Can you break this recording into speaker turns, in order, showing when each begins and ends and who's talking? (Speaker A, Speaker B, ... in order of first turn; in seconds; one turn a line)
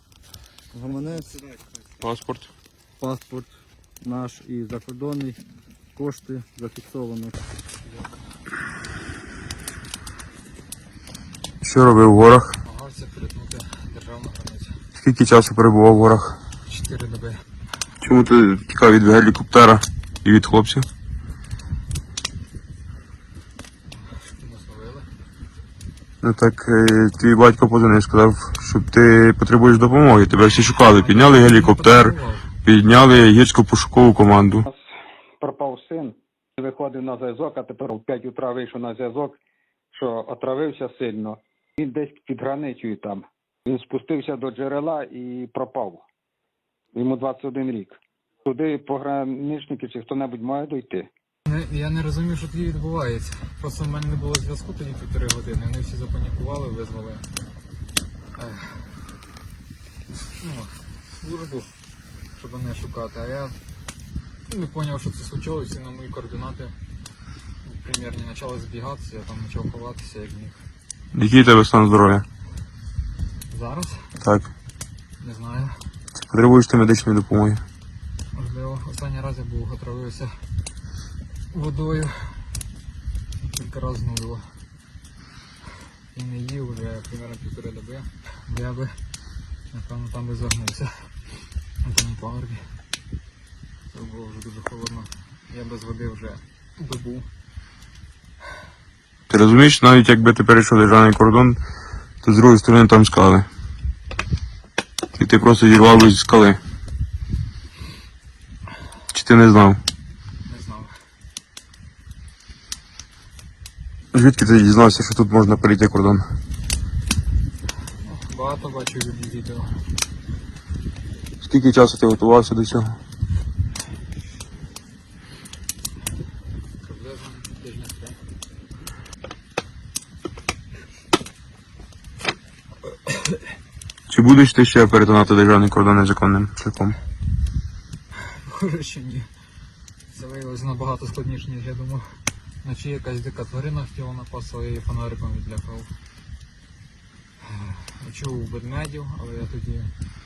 Speaker A: 0.7-1.5
Speaker B: 2.0-2.5
Speaker A: 3.0-5.4
Speaker A: 6.0-7.4
Speaker B: 11.6-12.6
Speaker C: 12.6-14.8
Speaker B: 15.0-16.4
Speaker C: 16.6-17.4
Speaker B: 18.0-20.9
Speaker C: 23.9-25.1
Speaker B: 26.2-34.6
Speaker C: 30.8-32.5
Speaker D: 35.4-39.4
Speaker D: 39.9-46.0
Speaker D: 46.9-51.1
Speaker C: 51.5-57.3
Speaker C: 58.4-58.9
Speaker C: 60.4-61.7
Speaker C: 62.3-63.6
Speaker C: 64.5-66.8
Speaker C: 67.6-70.6
Speaker B: 71.1-72.2
Speaker C: 73.5-74.1
Speaker B: 74.2-74.5
Speaker C: 75.2-75.8
Speaker B: 76.2-77.6
Speaker C: 78.3-80.3
Speaker C: 81.5-82.4
Speaker C: 83.4-84.5
Speaker C: 86.1-89.0
Speaker C: 89.7-91.1
Speaker C: 91.8-92.6
Speaker C: 93.9-97.3
Speaker B: 99.3-101.6
Speaker B: 102.2-103.5
Speaker B: 105.2-106.6
Speaker B: 109.1-109.8
Speaker C: 110.5-111.0
Speaker B: 114.1-116.3
Speaker C: 118.0-119.8
Speaker B: 121.4-123.0
Speaker C: 126.8-128.2
Speaker B: 134.1-137.0
Speaker C: 138.2-139.3
Speaker C: 140.1-145.9
Speaker C: 147.4-149.9